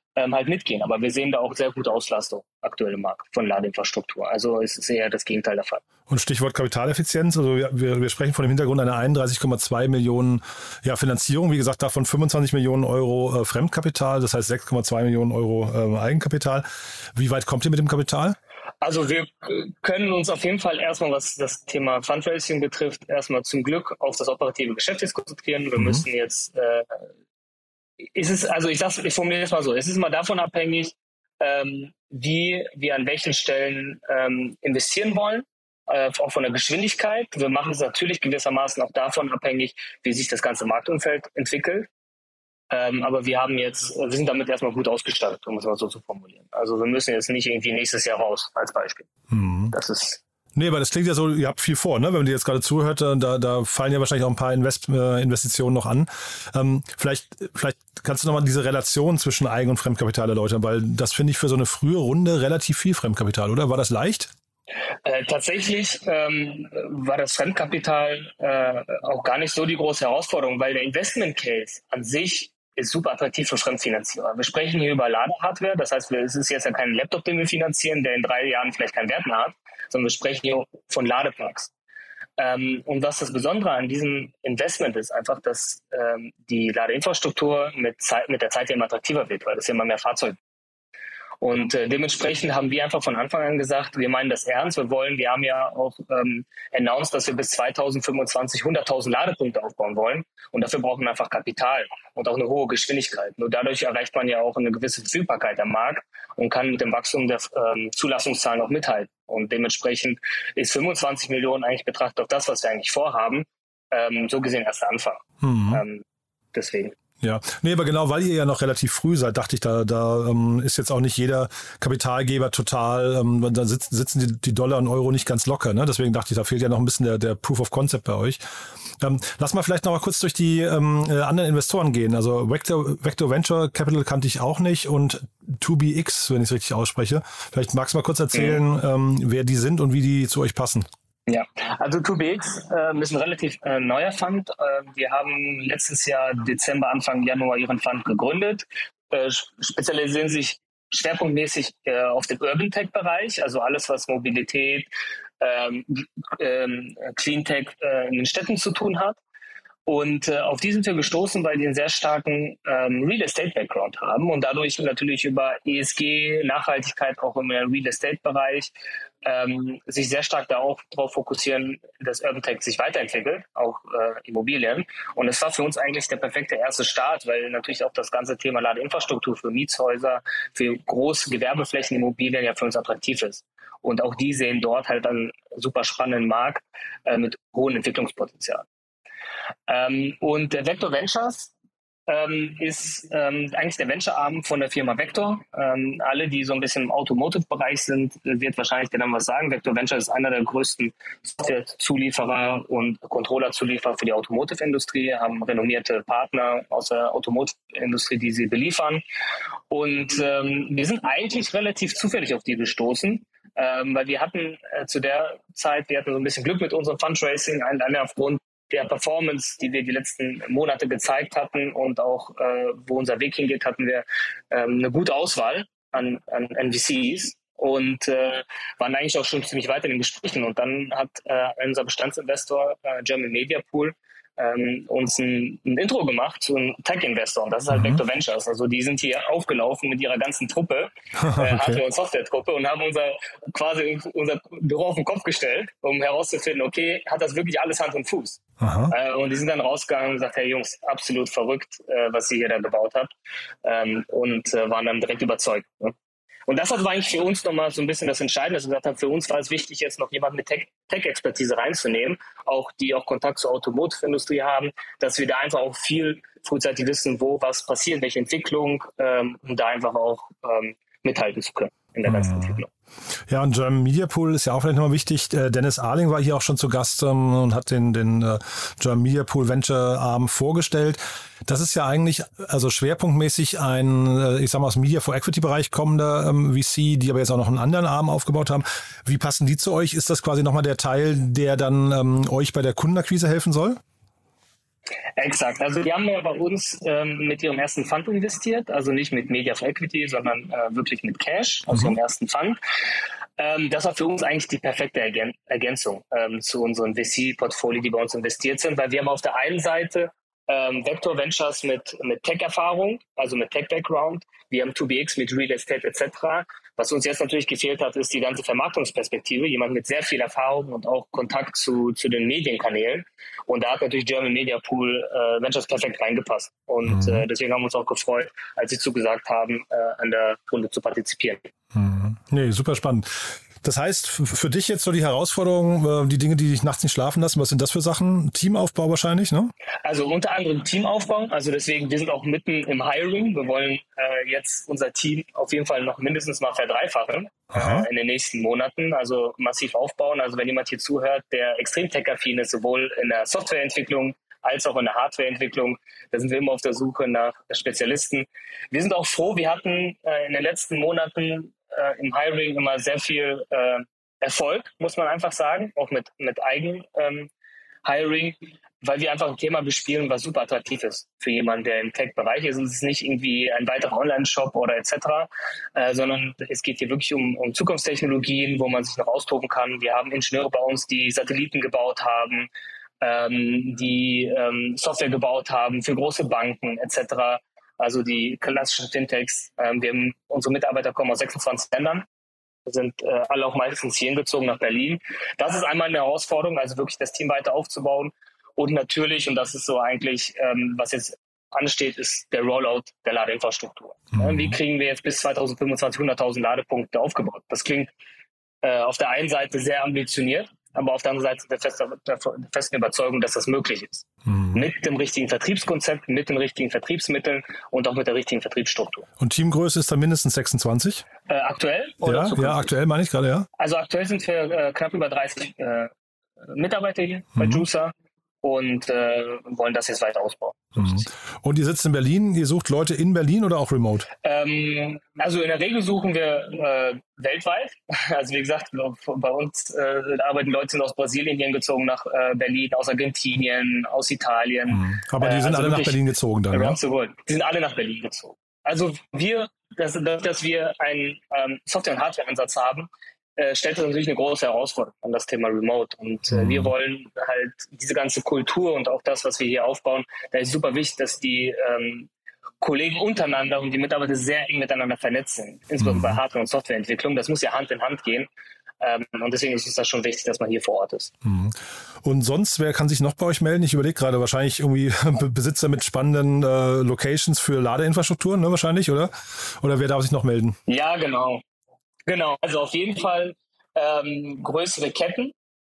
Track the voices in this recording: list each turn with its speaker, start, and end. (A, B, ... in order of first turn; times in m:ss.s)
0:00.2-0:05.8 A
0:06.1-0:18.4 B
0:18.8-0:27.0 A
0:28.1-0:41.9 A
0:42.7-0:49.1 A
0:49.3-0:49.8 B
0:49.7-0:50.2 A
0:50.6-1:04.3 B
1:05.0-1:21.7 A
1:22.4-1:30.4 A
1:31.4-1:57.0 A
1:55.4-1:55.8 B
1:57.2-2:08.4 B
2:09.0-2:20.9 B
2:18.3-2:18.6 A
2:21.3-2:39.2 A
2:39.9-3:08.7 A
3:09.7-3:11.5 A
3:12.1-3:29.0 A
3:29.7-4:13.1 A
3:57.7-3:58.0 B
4:01.2-4:01.8 B
4:08.6-4:08.9 B
4:13.6-4:16.0 A
4:16.5-4:32.7 A
4:32.1-4:32.6 B
4:33.3-4:53.8 B
4:55.2-5:02.6 A
5:01.7-5:02.0 B
5:03.4-5:31.5 A
5:26.9-5:27.2 B
5:31.7-5:39.5 B
5:39.8-6:07.3 A
5:47.5-5:47.9 B
6:07.8-6:22.5 A
6:23.0-6:32.1 A
6:32.7-6:47.9 A
6:44.2-6:44.6 B
6:48.6-6:59.1 A
6:54.3-6:54.6 B
6:59.2-7:01.1 B
7:01.3-7:02.8 A
7:02.0-7:03.5 B
7:03.6-7:11.1 A
7:07.4-7:07.6 B
7:10.8-7:14.1 B
7:14.2-7:26.0 A
7:24.7-7:26.8 B
7:26.5-7:42.1 A
7:36.3-7:36.7 B
7:42.6-7:48.3 A
7:45.8-7:46.2 B
7:48.8-7:51.1 A
7:51.2-8:00.6 B
8:00.7-8:01.4 A
8:02.1-8:05.3 A